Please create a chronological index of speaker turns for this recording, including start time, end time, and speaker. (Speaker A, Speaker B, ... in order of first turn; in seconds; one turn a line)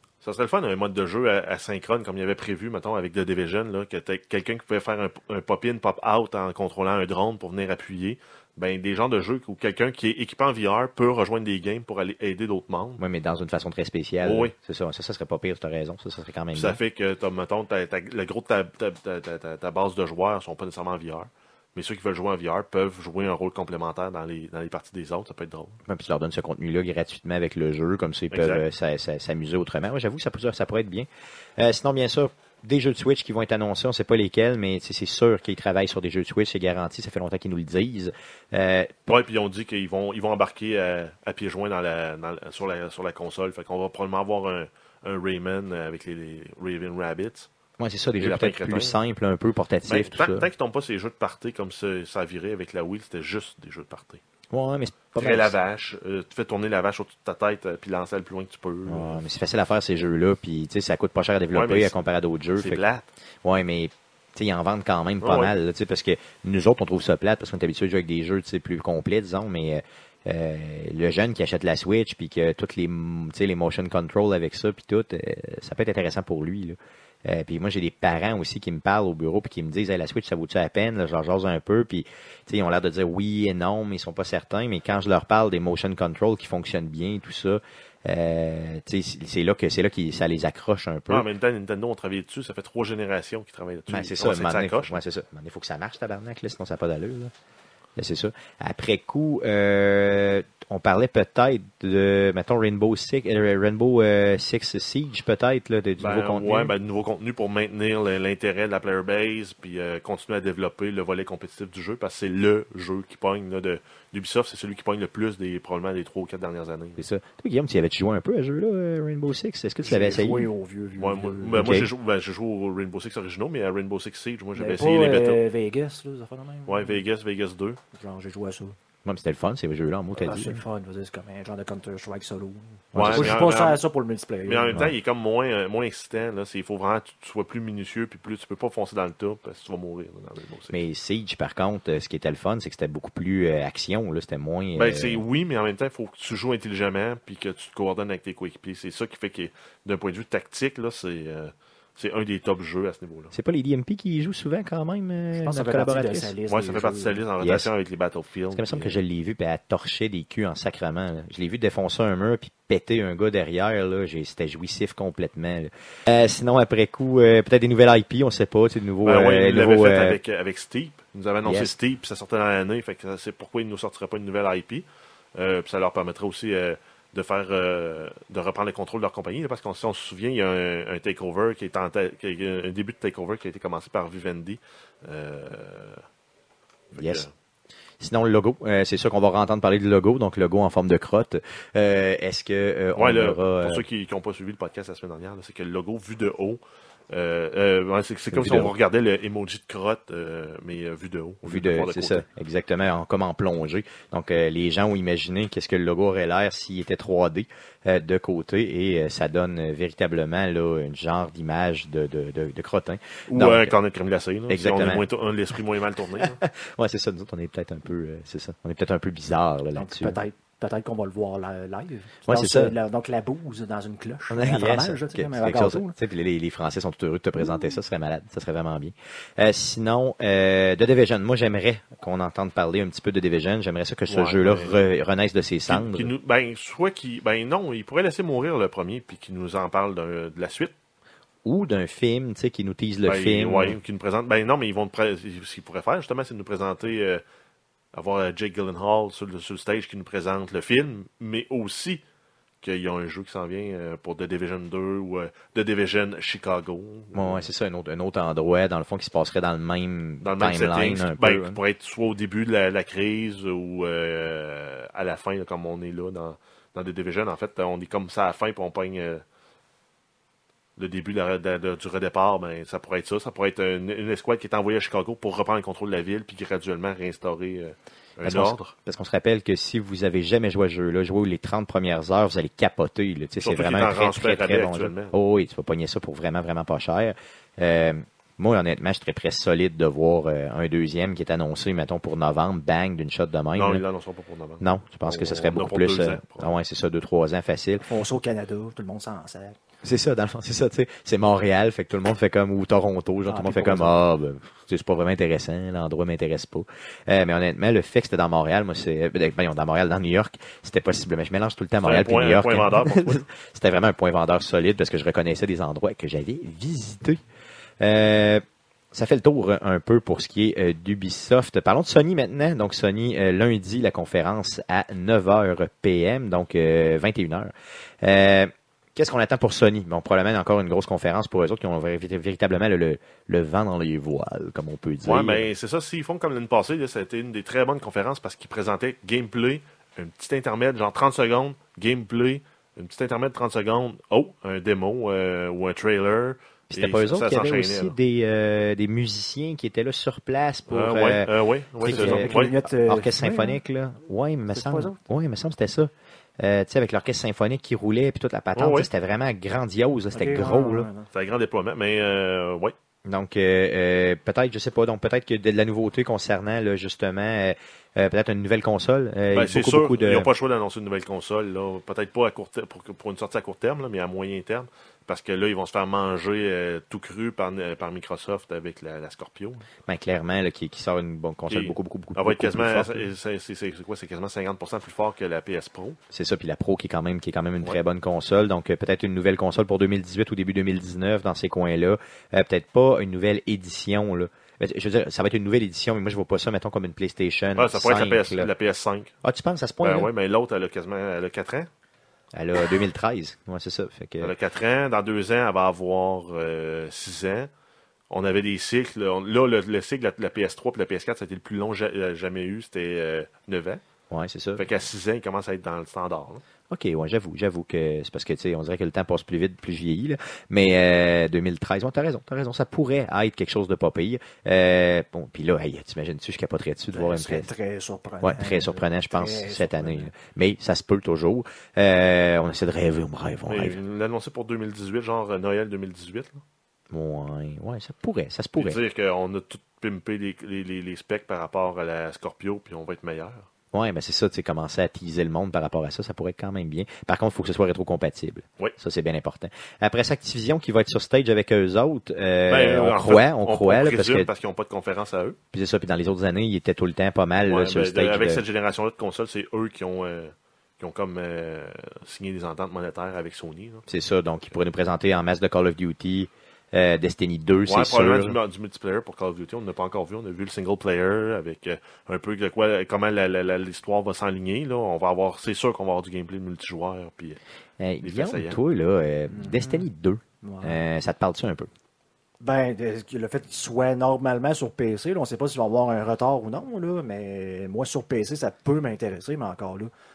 Speaker A: 0.2-13.0
Speaker B: 13.0-16.8
Speaker A: 14.2-14.5
Speaker A: 16.5-25.8
Speaker B: 25.9-39.2
Speaker A: 28.3-28.6
Speaker A: 39.1-47.5
Speaker B: 47.8-50.5
Speaker A: 48.2-49.0
Speaker A: 49.9-54.2
Speaker B: 54.5-55.5
Speaker A: 55.1-59.2
Speaker B: 58.9-62.8
Speaker A: 61.5-61.9
Speaker A: 62.5-63.1
Speaker B: 63.4-91.3
Speaker A: 65.2-65.5
Speaker A: 91.1-95.0
Speaker B: 93.9-97.3
Speaker B: 98.0-106.7
Speaker A: 106.0-117.0
Speaker B: 117.0-120.5
Speaker C: 119.8-121.8
Speaker A: 121.0-125.4
Speaker B: 121.5-121.9
Speaker C: 124.5-127.0
Speaker A: 126.7-127.8
Speaker C: 127.9-128.8
Speaker B: 129.0-130.6
Speaker C: 130.2-134.9
Speaker B: 132.9-133.4
Speaker A: 132.9-133.8
Speaker A: 134.4-140.8
Speaker B: 140.7-145.2
Speaker A: 144.8-153.3
Speaker B: 153.3-156.3
Speaker C: 155.3-157.2
Speaker A: 156.5-159.0
Speaker B: 157.4-157.7
Speaker B: 158.5-170.2
Speaker A: 169.0-186.0
Speaker B: 171.4-171.7
Speaker A: 186.9-187.3
Speaker B: 186.9-187.2
Speaker B: 188.0-193.8
Speaker A: 192.9-196.6
Speaker A: 197.1-202.2
Speaker B: 198.3-198.7
Speaker B: 201.4-213.7
Speaker A: 213.3-216.4
Speaker B: 214.5-215.0
Speaker B: 216.2-220.2
Speaker C: 219.8-225.9
Speaker B: 222.2-222.7
Speaker B: 224.3-236.1
Speaker A: 234.1-234.8
Speaker A: 235.7-240.7
Speaker B: 241.4-243.8
Speaker A: 243.1-247.2
Speaker A: 247.9-252.0
Speaker A: 252.6-257.4
Speaker B: 257.1-261.6
Speaker A: 260.2-269.2
Speaker A: 270.8-278.7
Speaker B: 278.2-293.8
Speaker A: 283.4-285.1
Speaker A: 293.5-296.5
Speaker B: 294.6-297.9
Speaker C: 297.8-299.6
Speaker B: 299.8-317.2
Speaker C: 303.3-303.8
Speaker A: 311.8-313.2
Speaker B: 317.8-335.5
Speaker A: 335.0-347.9
Speaker B: 346.7-360.9
Speaker A: 350.7-352.6
Speaker C: 351.9-353.6
Speaker C: 354.5-355.0
Speaker A: 358.6-358.9
Speaker C: 360.1-361.1
Speaker A: 361.1-362.7
Speaker B: 363.1-370.3
Speaker A: 369.3-379.6
Speaker B: 379.9-383.1
Speaker A: 381.5-386.0
Speaker B: 386.1-398.5
Speaker A: 397.6-399.1
Speaker B: 399.2-400.1
Speaker A: 399.8-401.7
Speaker B: 402.3-404.3
Speaker A: 404.2-407.5
Speaker A: 408.1-413.8
Speaker B: 414.1-414.6
Speaker A: 414.6-416.4
Speaker B: 416.7-427.5
Speaker C: 426.9-430.1
Speaker B: 428.2-433.8
Speaker A: 433.5-436.4
Speaker B: 436.9-438.8
Speaker A: 438.6-443.5
Speaker B: 443.7-454.3
Speaker A: 452.5-455.4
Speaker B: 455.5-458.4
Speaker A: 457.5-463.8
Speaker B: 463.9-468.4
Speaker A: 467.6-477.4
Speaker B: 477.8-481.7
Speaker A: 478.0-478.6
Speaker C: 479.3-479.9
Speaker C: 480.4-480.8
Speaker C: 482.4-489.9